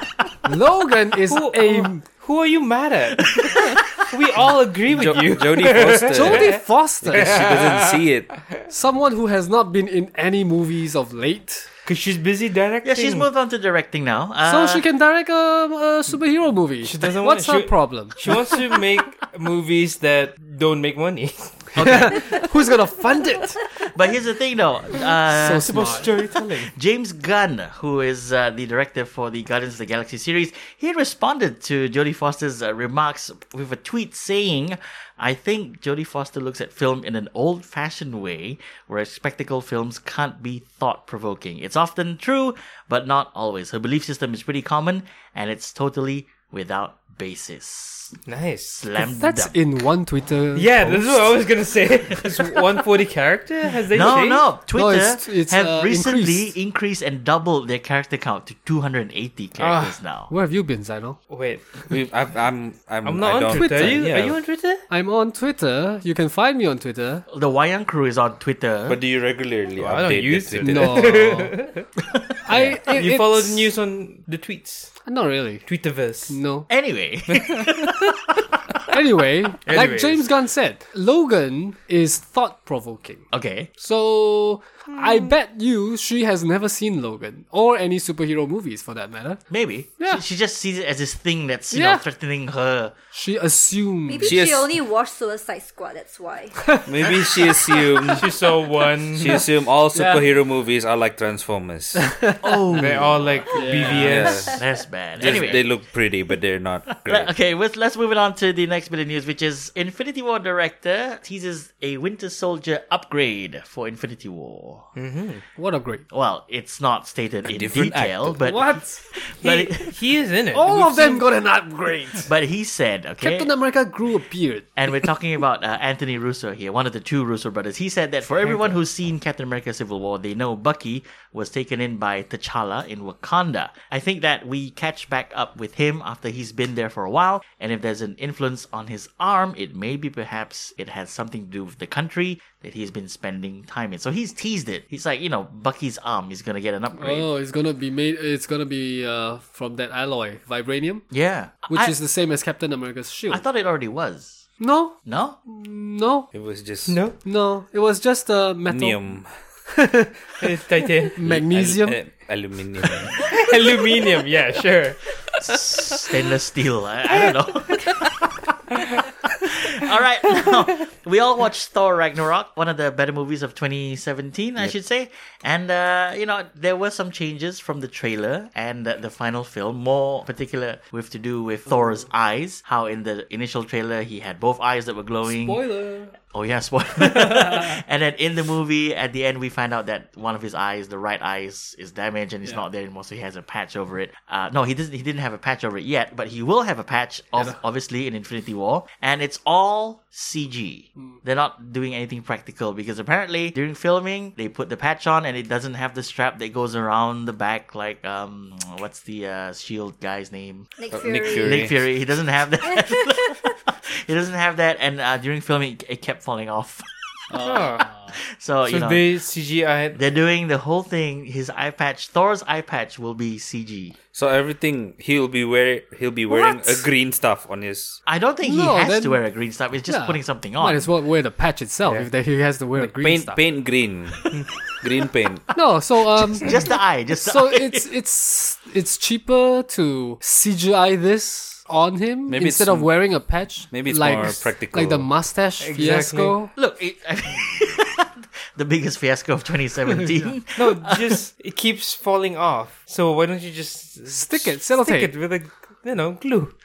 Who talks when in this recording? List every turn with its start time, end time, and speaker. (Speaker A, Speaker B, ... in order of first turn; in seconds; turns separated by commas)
Speaker A: 0.4-2.0, Speaker B: 1.3-8.3, Speaker C: 4.9-8.4, Speaker A: 6.0-7.4, Speaker A: 8.7-11.7, Speaker B: 11.8-13.3, Speaker D: 12.8-14.8, Speaker A: 14.4-18.6, Speaker B: 16.8-21.7, Speaker D: 21.7-22.5, Speaker A: 21.8-23.6, Speaker D: 23.8-26.0, Speaker A: 25.3-26.2, Speaker B: 25.6-26.7, Speaker D: 26.7-48.2, Speaker B: 48.3-48.8, Speaker D: 48.7-49.6, Speaker A: 49.0-51.2, Speaker B: 50.5-54.5, Speaker D: 53.9-60.3, Speaker A: 54.7-56.5, Speaker B: 59.6-59.9, Speaker A: 60.3-61.2, Speaker B: 61.3-62.0, Speaker C: 61.9-64.4, Speaker B: 63.0-64.9, Speaker A: 63.5-64.2, Speaker A: 64.9-67.2, Speaker D: 67.3-69.0, Speaker C: 68.9-71.3, Speaker B: 69.8-71.9, Speaker A: 70.6-71.6, Speaker A: 72.4-73.7, Speaker C: 72.5-72.8, Speaker B: 72.8-75.0, Speaker A: 75.0-75.7, Speaker B: 75.7-76.4, Speaker A: 76.3-76.7, Speaker D: 76.7-78.1, Speaker A: 78.9-89.4, Speaker B: 79.7-80.3, Speaker D: 83.3-83.7, Speaker B: 85.0-85.3, Speaker D: 89.5-92.9, Speaker A: 91.7-92.0, Speaker A: 93.1-94.4, Speaker E: 94.1-96.6, Speaker C: 94.2-94.7, Speaker C: 96.8-98.3, Speaker B: 98.1-99.4, Speaker C: 99.1-102.1, Speaker A: 99.9-100.3, Speaker D: 102.4-105.8, Speaker B: 102.7-104.6, Speaker A: 103.5-104.5, Speaker C: 103.9-107.3, Speaker D: 107.0-114.9, Speaker B: 114.9-115.4, Speaker A: 115.5-116.0, Speaker D: 116.1-119.9, Speaker C: 117.4-118.4, Speaker A: 118.4-119.1, Speaker B: 119.4-121.2, Speaker A: 120.5-122.3, Speaker D: 122.3-123.5, Speaker A: 123.2-124.7, Speaker D: 124.8-147.3, Speaker B: 128.4-128.8, Speaker A: 146.9-151.1, Speaker D: 151.1-152.0, Speaker A: 151.7-153.4, Speaker D: 153.3-154.4, Speaker A: 154.6-156.3, Speaker D: 155.0-155.4, Speaker C: 156.3-157.1, Speaker B: 156.8-157.2, Speaker A: 157.2-160.1, Speaker C: 158.7-159.3, Speaker B: 160.4-161.2, Speaker A: 161.1-162.1, Speaker C: 161.2-163.1, Speaker B: 163.2-165.2, Speaker D: 165.4-168.2, Speaker D: 169.4-185.6, Speaker A: 185.2-186.2, Speaker D: 186.2-210.7, Speaker A: 187.3-187.6, Speaker E: 210.8-211.7, Speaker C: 210.9-211.9, Speaker D: 211.4-216.8, Speaker A: 217.3-218.1, Speaker B: 217.4-217.9, Speaker D: 218.1-219.0, Speaker B: 218.7-220.0, Speaker D: 219.9-223.9, Speaker C: 224.1-228.0, Speaker D: 228.1-230.9, Speaker A: 228.4-229.2, Speaker A: 229.9-233.4, Speaker B: 231.8-232.1, Speaker C: 232.8-234.2, Speaker C: 234.8-235.4, Speaker A: 235.5-246.5, Speaker D: 236.3-237.9, Speaker C: 242.3-243.2, Speaker C: 243.7-245.1, Speaker B: 245.6-246.3, Speaker D: 246.6-251.2, Speaker B: 250.5-256.5, Speaker A: 254.1-255.1